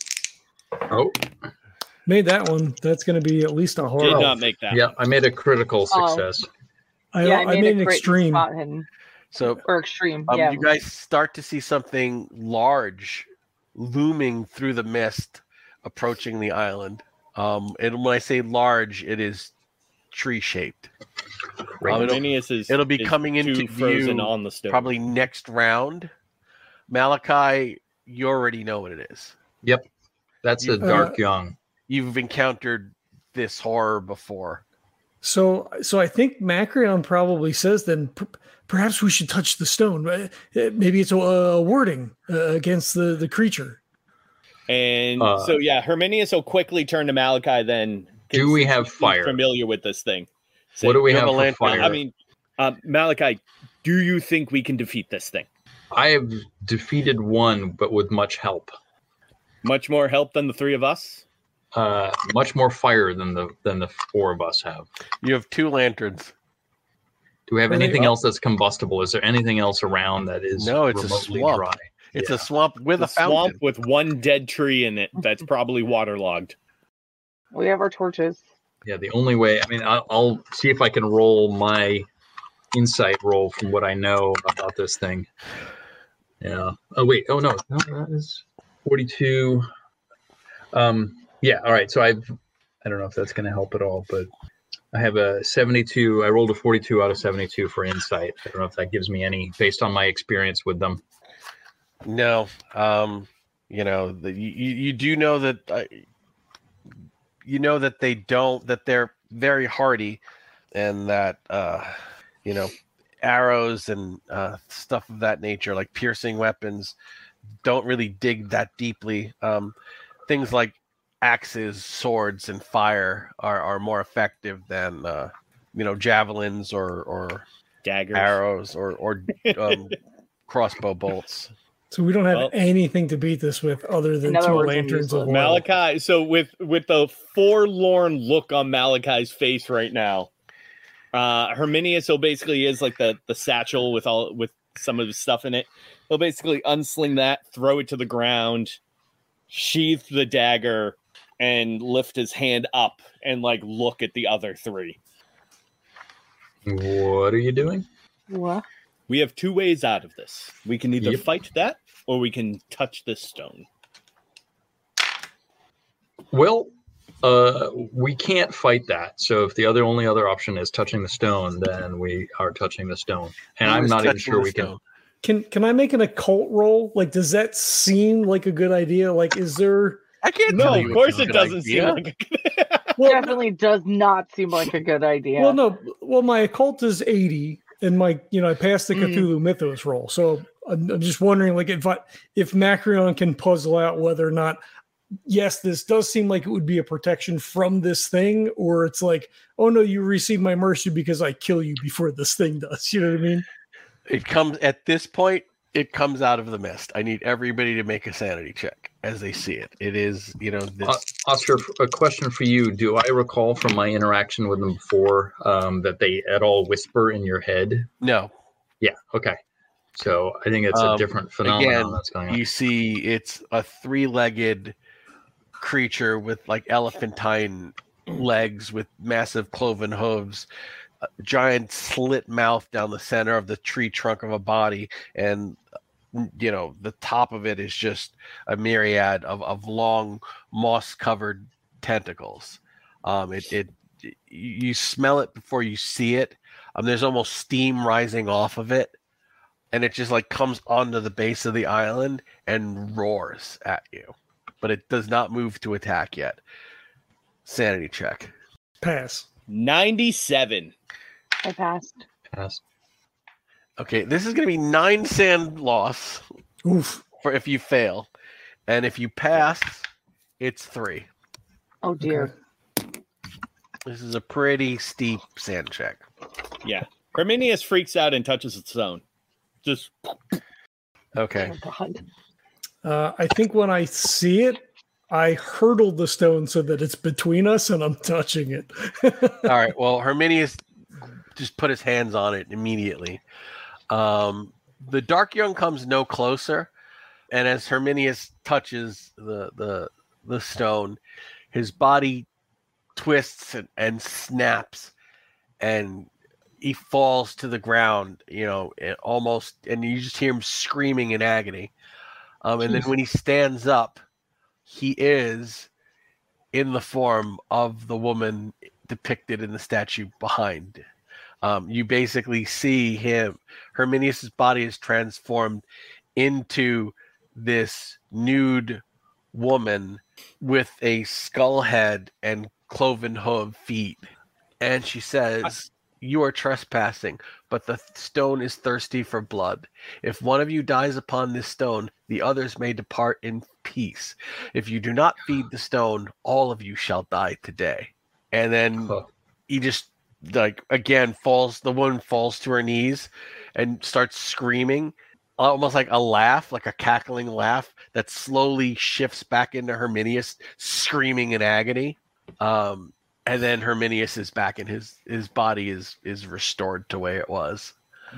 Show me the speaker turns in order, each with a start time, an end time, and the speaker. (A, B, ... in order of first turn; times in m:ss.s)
0:00.9-0:01.3 A
0:02.1-0:04.4 B
0:04.0-0:04.8 C
0:04.0-0:06.5 A
0:05.9-0:06.2 D
0:07.1-0:08.4 B
0:07.2-0:08.9 D
0:09.3-0:09.6 E
0:09.6-0:10.6 D
0:10.3-0:19.5 E
0:20.1-0:20.9 E
0:21.6-0:22.2 A
0:21.8-0:26.1 E
0:21.9-0:24.9 C
0:26.9-0:29.3 E
0:30.4-0:31.6 A
0:30.6-0:31.0 E
0:30.8-0:31.2 B
0:31.9-0:34.6 E
0:35.2-0:43.8 B
0:44.7-0:51.1 C
0:45.2-0:45.6 A
0:48.3-0:49.4 A
0:50.8-0:52.0 A
0:51.1-0:52.0 E
0:51.6-0:55.5 C
0:55.9-0:58.7 A
0:59.6-1:01.2 C
1:01.7-1:04.9 A
1:05.2-1:06.3 E
1:07.5-1:12.5 A
1:07.7-1:08.1 B
1:10.6-1:13.6 E
1:13.0-1:16.6 C
1:17.5-1:18.4 D
1:18.8-1:22.1 A
1:22.7-1:25.3 A
1:26.4-1:29.6 A
1:30.7-1:32.3 A
1:32.8-1:34.3 A
1:34.9-1:41.0 A
1:42.0-1:46.0 E
1:47.4-1:50.2 E
1:50.7-1:56.9 E
1:57.6-1:59.7 E
2:00.3-2:07.4 E
2:07.8-2:08.4 C
2:08.1-2:09.9 E
2:09.5-2:09.9 C
2:10.5-2:11.5 E
2:11.9-2:15.6 B
2:14.2-2:15.4 D
2:15.3-2:20.3 C
2:21.1-2:28.8 C
2:29.5-2:35.0 C
2:36.6-2:37.9 A
2:38.3-2:38.6 D
2:39.1-2:43.6 C
2:46.3-2:54.7 A
2:53.6-2:54.8 E
2:55.2-3:00.8 B
3:00.2-3:02.0 E
3:00.5-3:03.0 C
3:00.9-3:01.3 A
3:03.0-3:03.4 B
3:03.0-3:05.6 D
3:05.4-3:14.6 B
3:08.9-3:09.3 D
3:15.2-3:23.4 B
3:24.1-3:31.0 E
3:30.8-3:37.9 A
3:38.0-3:38.3 E
3:38.8-3:39.4 A
3:39.9-3:42.4 A
3:40.7-3:44.8 E
3:45.6-3:50.5 E
3:51.2-3:55.6 E
3:56.1-4:09.0 E
4:09.7-4:16.4 E
4:17.4-4:18.3 E
4:18.8-4:19.3 B
4:19.5-4:20.7 C
4:21.4-4:22.0 D
4:22.3-4:22.6 A
4:23.8-4:26.2 E
4:26.6-4:27.0 B
4:27.2-4:28.1 E
4:28.7-4:29.9 E
4:30.4-4:31.1 E
4:31.8-4:32.3 D
4:32.0-4:32.3 B
4:33.8-4:36.0 E
4:36.6-4:39.0 C
4:39.6-4:40.2 C
4:41.1-4:41.5 E
4:41.4-4:42.0 D
4:42.8-4:49.5 B
4:49.4-4:50.6 E
4:51.4-4:53.2 E
4:53.9-4:56.7 E
4:57.3-5:01.0 E
5:01.5-5:02.2 E
5:03.0-5:04.9 E
5:05.6-5:06.1 E
5:06.6-5:11.7 E
5:12.4-5:14.0 E
5:14.6-5:15.7 E
5:16.5-5:20.8 E
5:21.4-5:25.6 E
5:26.2-5:28.8 E
5:29.3-5:34.0 E
5:34.6-5:48.9 E
5:49.5-6:07.7 E